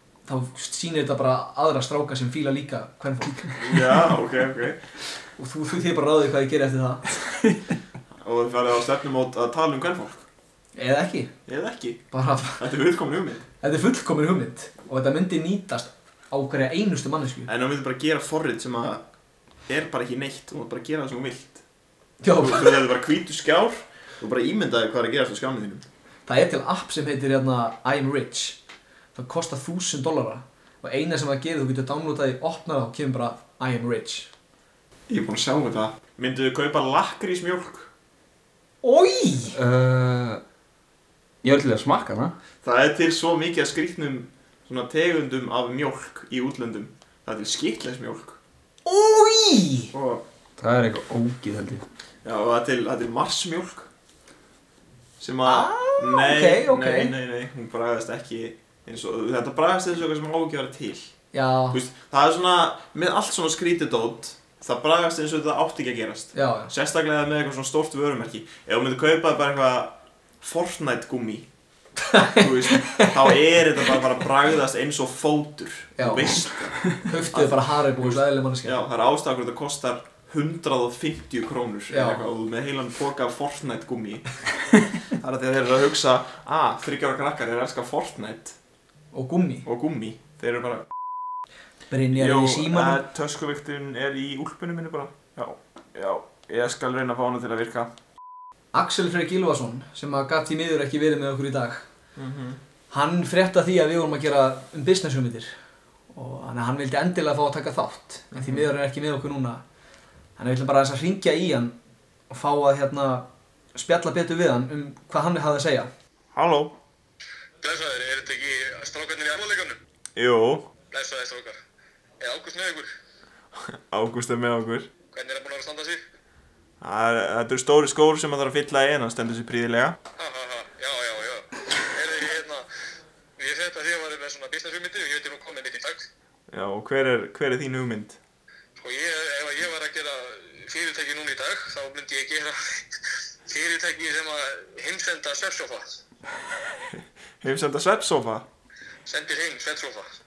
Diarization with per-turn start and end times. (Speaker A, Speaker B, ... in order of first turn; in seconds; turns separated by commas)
Speaker A: 0.2-3.8, Speaker B: 3.6-4.8, Speaker A: 5.4-7.1, Speaker B: 8.2-10.2, Speaker A: 10.8-11.3, Speaker B: 11.5-13.4, Speaker A: 12.1-12.6, Speaker A: 13.6-17.5, Speaker B: 17.5-19.0, Speaker B: 19.7-21.6, Speaker A: 22.2-22.8, Speaker B: 22.4-25.9, Speaker A: 26.3-28.6, Speaker A: 29.1-34.3, Speaker B: 35.1-37.9, Speaker A: 38.8-39.6, Speaker C: 39.5-40.4, Speaker C: 41.4-42.4, Speaker B: 42.6-48.4, Speaker A: 48.9-49.9, Speaker B: 49.9-50.2, Speaker C: 50.6-51.9, Speaker B: 52.2-53.9, Speaker B: 55.2-61.1, Speaker A: 55.5-57.1, Speaker A: 61.3-61.8, Speaker B: 61.7-71.5, Speaker A: 66.3-66.7, Speaker A: 72.1-73.1, Speaker B: 72.2-88.6, Speaker A: 76.0-78.8, Speaker A: 81.9-82.2, Speaker A: 89.1-89.7, Speaker B: 89.7-90.9, Speaker A: 91.9-93.0, Speaker B: 92.1-97.9, Speaker A: 98.7-101.8, Speaker B: 102.2-102.6, Speaker A: 102.9-105.5, Speaker A: 106.1-109.6, Speaker B: 108.3-108.7, Speaker A: 110.4-111.8, Speaker A: 112.3-115.9, Speaker B: 116.3-116.7, Speaker D: 117.6-119.8, Speaker B: 120.2-120.7, Speaker D: 120.9-121.6, Speaker D: 122.2-122.9, Speaker B: 123.6-124.9, Speaker D: 125.1-126.0, Speaker B: 126.8-130.0, Speaker D: 130.2-132.7, Speaker D: 133.4-136.1, Speaker B: 136.5-138.2, Speaker D: 138.8-146.0, Speaker B: 146.9-148.4, Speaker D: 149.1-150.1